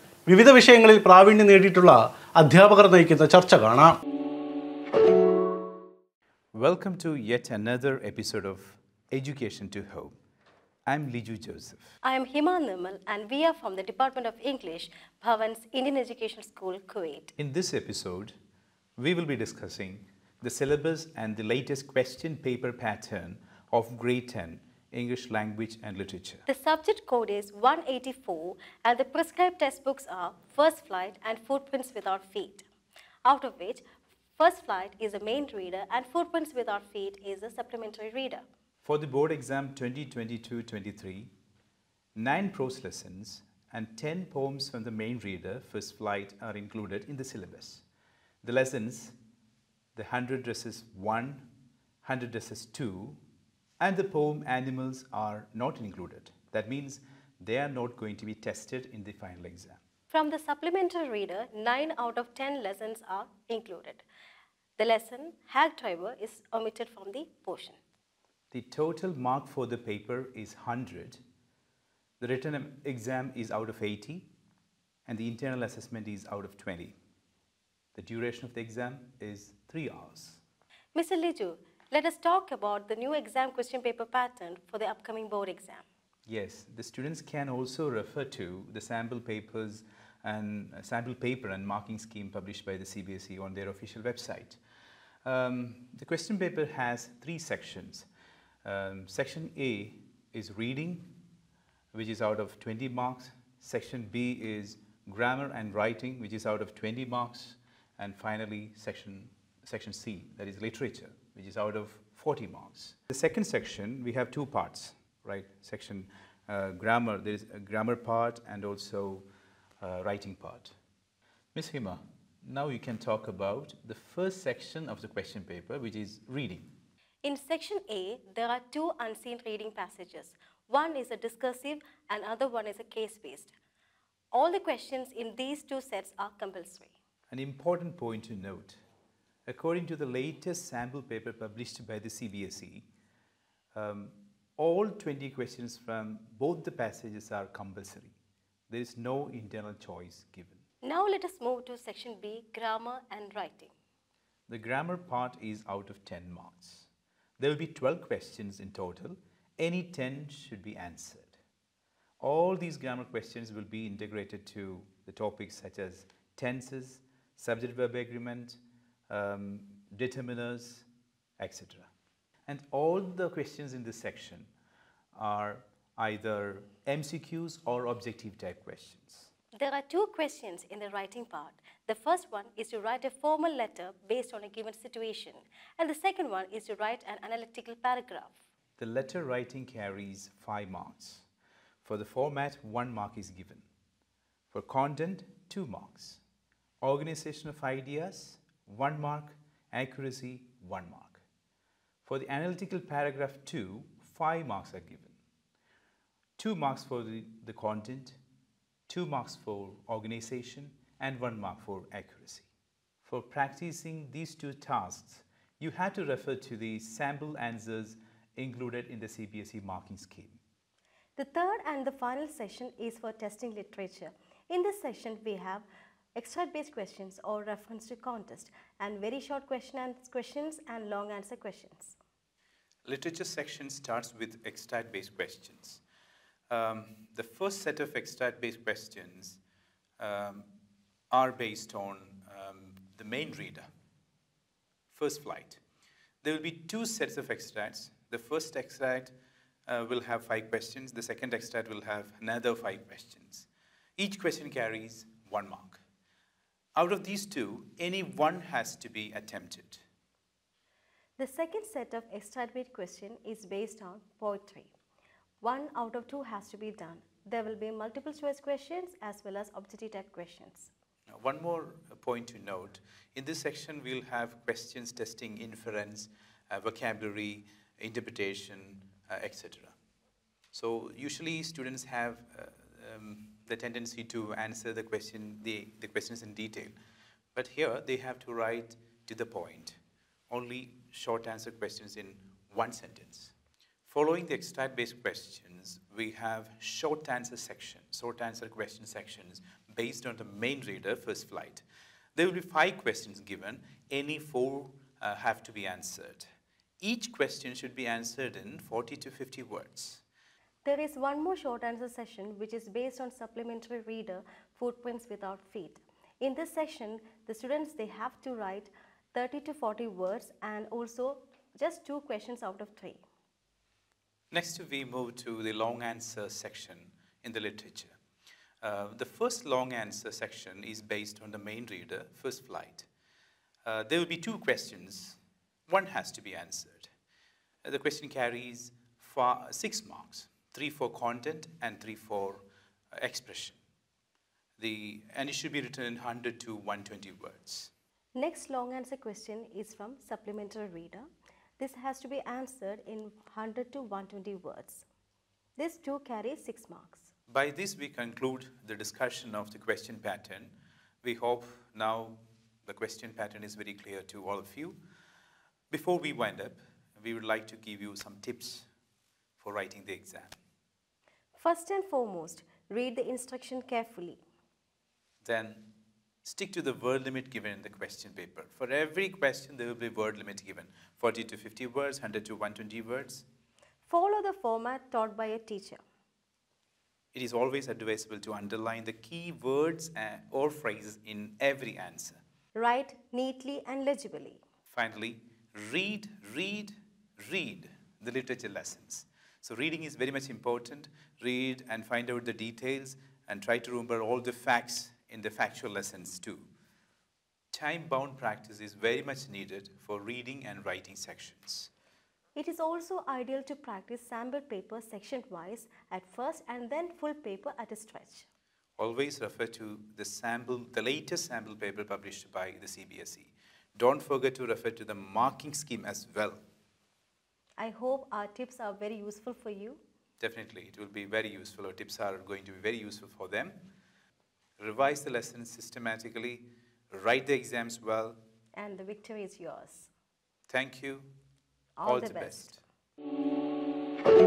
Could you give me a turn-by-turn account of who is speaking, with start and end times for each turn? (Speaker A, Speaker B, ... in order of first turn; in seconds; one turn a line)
Speaker A: 0.3-3.9
Speaker B: 6.5-10.2
Speaker B: 10.9-11.9
Speaker C: 12.0-17.3
Speaker B: 17.4-18.3
Speaker B: 19.0-26.4
Speaker C: 26.5-32.6
Speaker C: 33.2-33.8
Speaker C: 34.4-38.4
Speaker B: 38.8-41.3
Speaker B: 42.1-47.8
Speaker B: 48.4-49.1
Speaker B: 49.9-51.5
Speaker B: 52.0-53.2
Speaker B: 53.8-59.8
Speaker C: 60.1-64.0
Speaker C: 64.8-67.8
Speaker B: 68.5-71.2
Speaker B: 72.2-74.3
Speaker B: 75.0-77.0
Speaker B: 78.0-80.4
Speaker C: 80.9-85.8
Speaker B: 86.3-94.6
Speaker B: 95.2-98.1
Speaker B: 98.6-101.1
Speaker B: 101.9-119.3
Speaker B: 119.8-120.7
Speaker B: 121.5-126.7
Speaker C: 127.2-133.5
Speaker C: 134.3-136.9
Speaker B: 137.3-138.8
Speaker B: 139.5-142.8
Speaker B: 143.7-148.1
Speaker B: 148.7-150.6
Speaker C: 150.8-153.7
Speaker B: 154.5-156.9
Speaker B: 157.4-161.3
Speaker B: 162.2-168.6
Speaker B: 169.1-170.8
Speaker B: 171.4-171.9
Speaker B: 172.5-174.5
Speaker B: 175.1-179.3
Speaker C: 179.6-188.3
Speaker B: 188.8-191.2
Speaker B: 191.8-193.7
Speaker B: 194.5-196.2
Speaker B: 196.8-201.2
Speaker B: 202.1-205.2
Speaker B: 206.4-208.2
Speaker B: 208.9-212.5
Speaker B: 213.0-220.4
Speaker C: 221.2-231.9
Speaker B: 232.8-235.8
Speaker B: 236.5-239.4
Speaker B: 240.0-240.5
Speaker B: 241.1-243.7
Speaker B: 244.9-245.6
Speaker B: 246.2-249.1
Speaker B: 249.7-253.5
Speaker B: 254.0-255.8
Speaker B: 256.8-259.8
Speaker C: 261.2-264.7
Speaker C: 265.4-270.7
Speaker B: 271.1-279.7
Speaker B: 280.5-286.7
Speaker B: 287.3-289.8
Speaker B: 290.3-293.3
Speaker B: 293.9-306.3
Speaker B: 306.8-310.0
Speaker C: 310.6-323.0
Speaker B: 324.3-327.9
Speaker B: 328.6-332.9
Speaker B: 333.6-336.9
Speaker B: 337.6-343.6
Speaker B: 344.6-347.7
Speaker C: 348.1-351.1
Speaker C: 351.6-354.9
Speaker C: 355.6-357.1
Speaker B: 357.3-364.8
Speaker B: 365.7-368.7
Speaker B: 369.4-370.4
Speaker C: 371.4-374.2
Speaker B: 375.2-375.7
Speaker B: 376.2-383.2
Speaker C: 383.9-385.8
Speaker B: 387.1-392.2
Speaker C: 392.5-394.4
Speaker B: 394.7-406.5
Speaker B: 407.5-411.7
Speaker C: 412.3-418.2
Speaker B: 418.8-426.4
Speaker C: 427.6-429.8
Speaker B: 430.2-433.6
Speaker B: 434.6-438.2
Speaker C: 438.6-439.9
Speaker B: 440.5-441.1
Speaker C: 441.8-442.6
Speaker B: 441.8-442.6